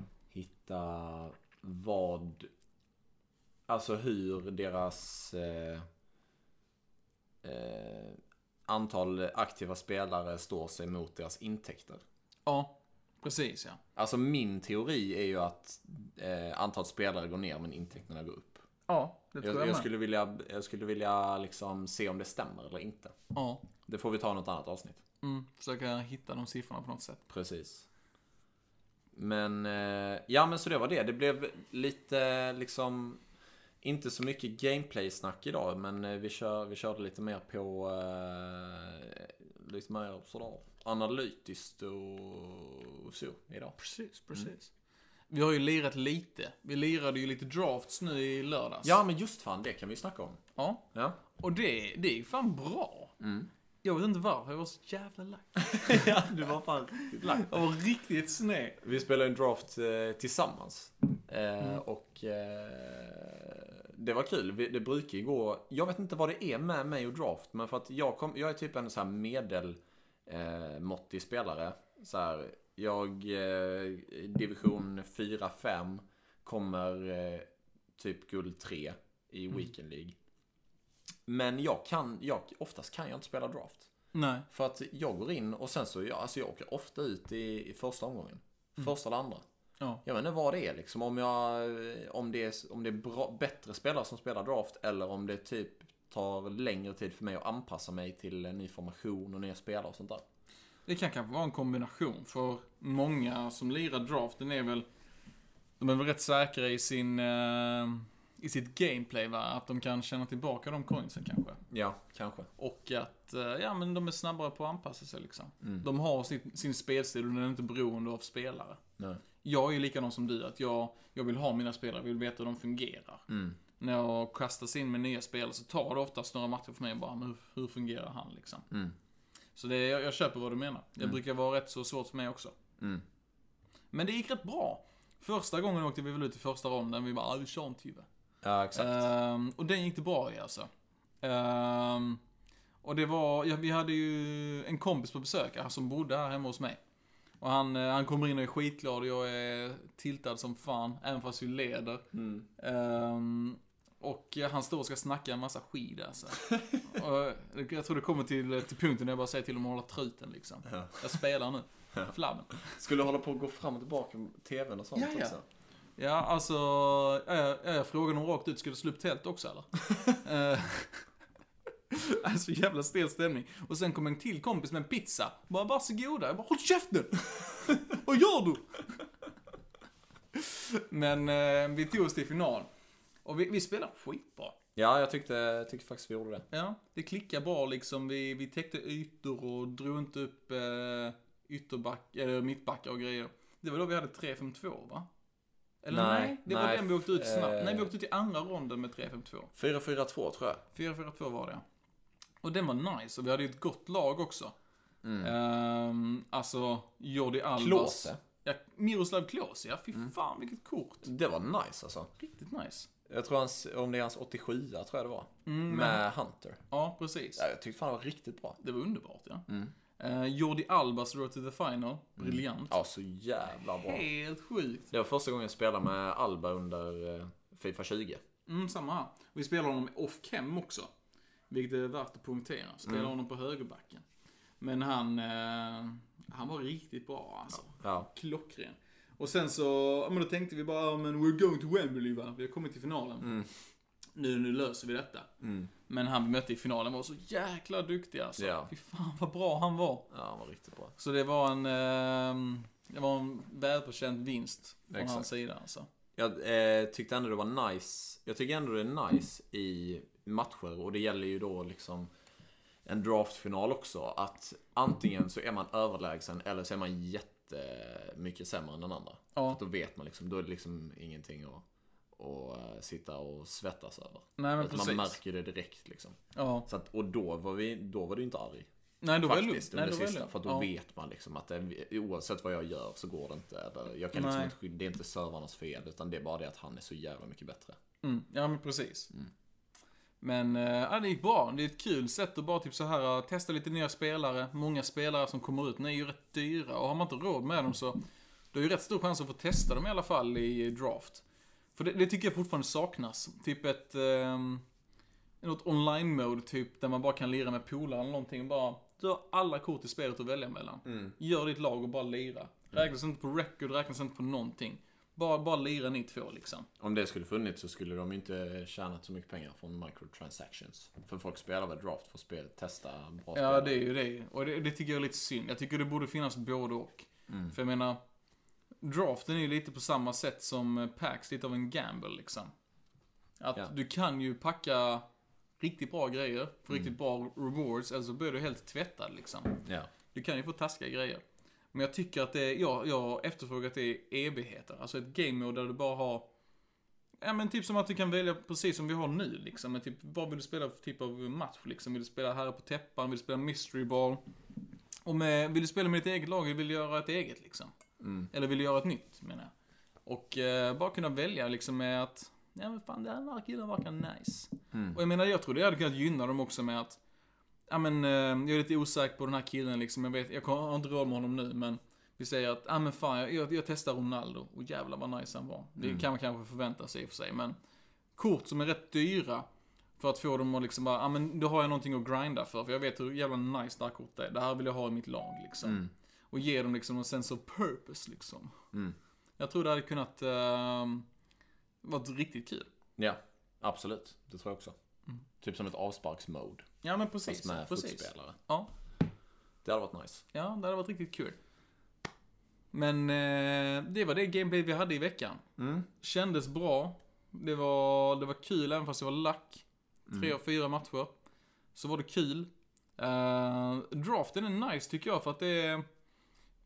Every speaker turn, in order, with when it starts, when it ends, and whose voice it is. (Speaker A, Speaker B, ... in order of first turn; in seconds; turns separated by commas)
Speaker A: 0.3-2.5, Speaker A: 3.7-5.9, Speaker A: 7.4-12.0, Speaker B: 12.4-13.8, Speaker A: 13.9-18.6, Speaker B: 18.9-19.9, Speaker A: 19.4-23.1, Speaker B: 23.3-23.6, Speaker A: 23.8-25.0, Speaker B: 25.2-27.2, Speaker A: 27.3-27.9, Speaker A: 29.1-33.2, Speaker A: 33.8-43.8, Speaker B: 43.8-44.7, Speaker B: 45.3-49.0, Speaker A: 48.8-50.4, Speaker B: 50.5-50.8, Speaker A: 50.9-51.2, Speaker B: 51.4-53.1, Speaker A: 53.2-53.5, Speaker B: 53.8-58.8, Speaker A: 55.7-57.7, Speaker A: 58.8-80.2, Speaker A: 81.3-83.9, Speaker B: 84.1-84.5, Speaker A: 84.5-89.4, Speaker A: 90.0-100.2, Speaker B: 100.9-104.8, Speaker B: 105.8-111.6, Speaker A: 111.7-112.5, Speaker B: 112.6-118.8, Speaker B: 119.4-123.3, Speaker A: 123.3-123.6, Speaker B: 123.8-128.6, Speaker B: 129.5-132.6, Speaker B: 133.9-138.1, Speaker A: 138.4-139.1, Speaker B: 138.7-140.7, Speaker B: 141.2-142.2, Speaker B: 142.8-146.8, Speaker B: 147.4-152.0, Speaker A: 152.1-152.4, Speaker B: 152.6-162.8, Speaker A: 160.7-161.1, Speaker A: 162.6-165.4, Speaker B: 164.9-165.4, Speaker B: 166.0-171.0, Speaker B: 171.9-179.0, Speaker B: 180.3-182.7, Speaker B: 183.2-184.6, Speaker A: 184.8-186.5, Speaker B: 186.5-195.1, Speaker B: 195.8-199.5, Speaker A: 195.9-197.9, Speaker A: 199.5-200.6, Speaker B: 200.7-201.6, Speaker B: 202.4-204.5, Speaker A: 205.0-205.3, Speaker B: 205.2-211.1, Speaker A: 207.6-208.2, Speaker A: 211.0-212.1, Speaker B: 212.2-212.9, Speaker A: 213.1-216.6, Speaker B: 215.4-216.0, Speaker B: 216.7-217.4, Speaker A: 217.4-218.6, Speaker B: 218.6-219.4, Speaker A: 219.5-219.7, Speaker B: 220.0-222.8, Speaker A: 222.2-224.0, Speaker B: 223.8-224.9, Speaker A: 224.9-228.2, Speaker B: 228.5-230.9, Speaker B: 231.5-234.0, Speaker A: 232.8-233.1, Speaker B: 234.6-243.3, Speaker A: 237.7-238.1, Speaker A: 243.2-243.5, Speaker B: 244.2-245.3, Speaker A: 245.4-245.7, Speaker B: 245.9-250.1, Speaker A: 248.4-248.7, Speaker A: 250.1-250.9, Speaker B: 251.0-255.9, Speaker A: 254.9-255.3, Speaker A: 256.1-262.1, Speaker A: 262.9-271.6, Speaker A: 272.1-278.7, Speaker B: 274.4-275.2, Speaker B: 276.3-276.7, Speaker B: 279.0-280.7, Speaker A: 279.2-287.8, Speaker B: 284.1-284.5, Speaker B: 288.0-289.1, Speaker B: 290.2-301.2, Speaker B: 301.8-304.6, Speaker B: 305.4-316.7, Speaker A: 310.9-311.1, Speaker A: 316.8-323.8, Speaker B: 323.3-328.0, Speaker A: 327.3-327.5, Speaker B: 328.8-332.5, Speaker B: 333.4-335.0, Speaker B: 335.6-346.3, Speaker A: 339.6-339.9, Speaker B: 347.2-354.2, Speaker B: 355.0-357.7, Speaker A: 358.0-358.3, Speaker B: 358.3-359.5, Speaker B: 360.1-367.0, Speaker A: 364.7-365.0, Speaker B: 367.7-377.6, Speaker A: 375.8-376.1, Speaker B: 378.2-379.4, Speaker B: 380.0-388.6, Speaker A: 385.6-385.9, Speaker B: 389.4-391.1, Speaker B: 391.8-392.7, Speaker A: 393.0-394.7, Speaker A: 395.4-396.6, Speaker B: 396.8-398.7, Speaker A: 397.2-398.4, Speaker A: 399.6-400.2, Speaker B: 400.3-401.4, Speaker B: 402.7-405.4, Speaker A: 405.6-405.9, Speaker B: 406.0-411.1, Speaker B: 411.7-415.9